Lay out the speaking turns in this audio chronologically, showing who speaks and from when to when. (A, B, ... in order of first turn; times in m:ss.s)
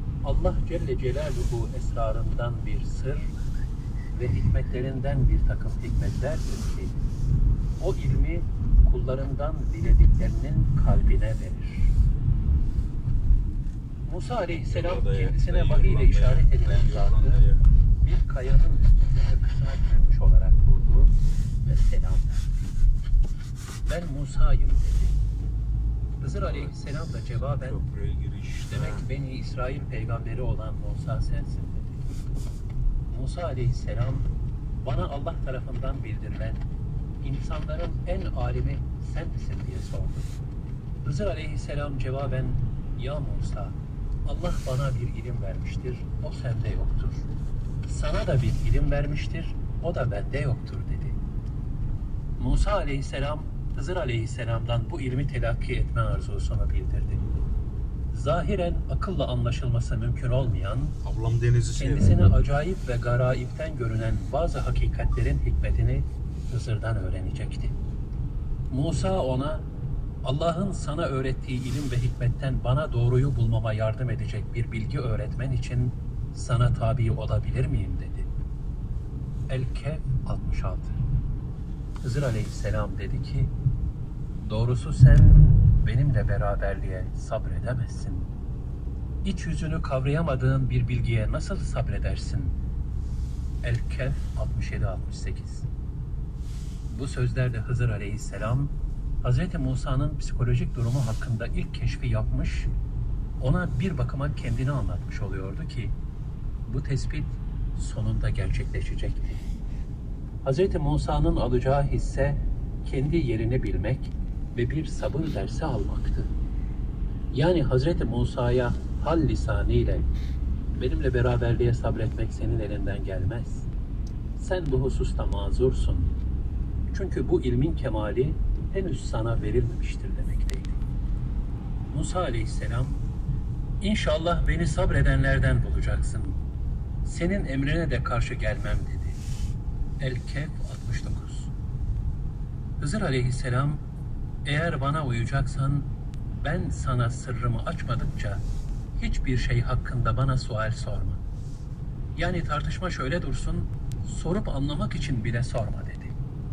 0:00.2-0:03.3 A
0:04.2-0:07.0 A
0:07.8-0:11.9 A
0:14.1-0:17.5 A
0:14.7-0:17.7 B
0:18.0-0:22.5 A
0:23.8-0:25.2 A
0:26.2-0:27.8 A
0:26.4-0:26.8 B
0:27.3-0:29.1 B
0:28.7-0:32.1 A
0:33.1-0:34.3 A
0:34.8-0:36.6 A
0:37.2-0:40.3 A
0:41.0-0:47.3 A
0:47.8-0:51.2 A
0:52.4-0:57.3 A
0:58.1-1:01.0 A
1:01.0-1:02.3 B
1:01.8-1:07.8 A
1:08.7-1:09.7 A
1:10.2-1:18.3 A
1:19.5-1:21.0 A
1:22.0-1:23.5 A
1:24.4-1:28.3 A
1:29.2-1:32.6 A
1:33.6-1:35.7 A
1:36.9-1:42.7 A
1:43.4-1:46.0 A
1:46.6-1:49.5 A
1:50.4-1:56.3 A
1:57.3-2:00.1 A
2:00.8-2:03.7 A
2:04.4-2:06.2 A
2:06.9-2:10.8 A
2:11.9-2:13.0 A
2:13.8-2:16.4 A
2:17.0-2:19.2 A
2:20.0-2:21.5 A
2:22.8-2:23.8 A
2:24.4-2:28.5 A
2:29.0-2:31.2 A
2:32.2-2:36.2 A